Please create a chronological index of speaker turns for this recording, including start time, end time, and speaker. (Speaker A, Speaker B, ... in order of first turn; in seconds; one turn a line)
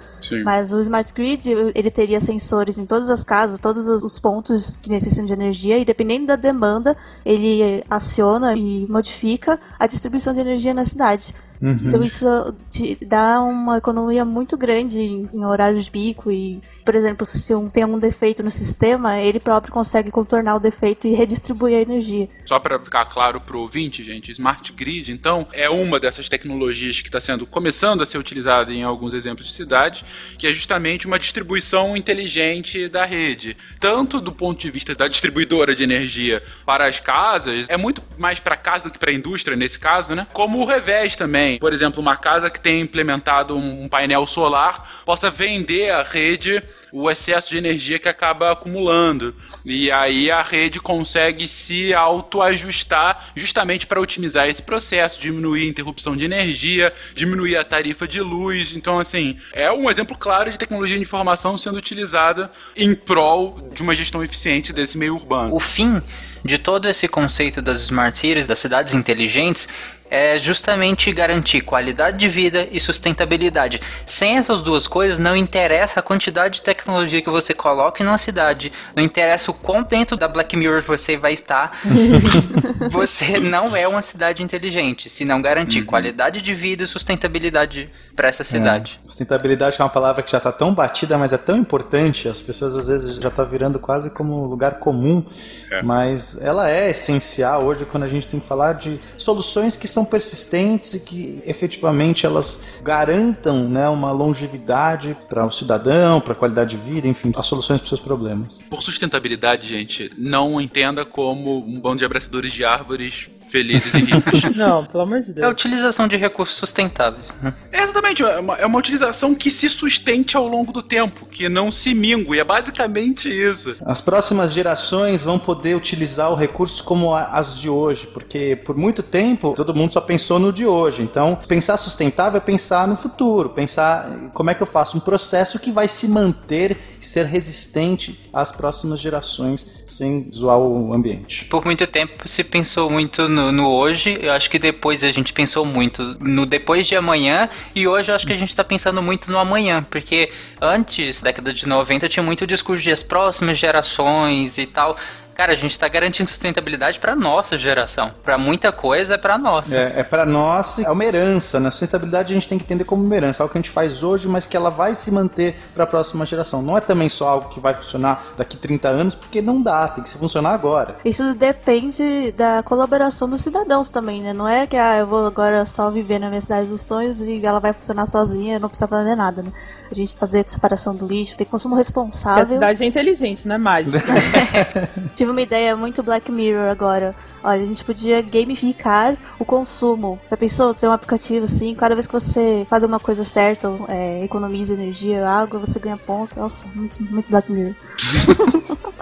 Speaker A: 0.2-0.5
Speaker B: 0.4-22.3
Speaker C: 11.6-12.1
Speaker A: 22.5-65.5
Speaker D: 65.5-88.9
Speaker A: 85.7-86.1
Speaker C: 88.5-95.3
Speaker C: 95.8-108.6
Speaker A: 108.7-114.5
Speaker E: 114.5-115.6
Speaker D: 115.4-117.5
Speaker A: 117.7-123.8
Speaker C: 123.8-141.5
Speaker D: 141.5-159.8
Speaker C: 159.7-171.0
Speaker B: 171.0-182.7
Speaker E: 182.3-184.4
Speaker C: 183.8-185.1
Speaker B: 184.1-184.6
Speaker B: 185.1-198.6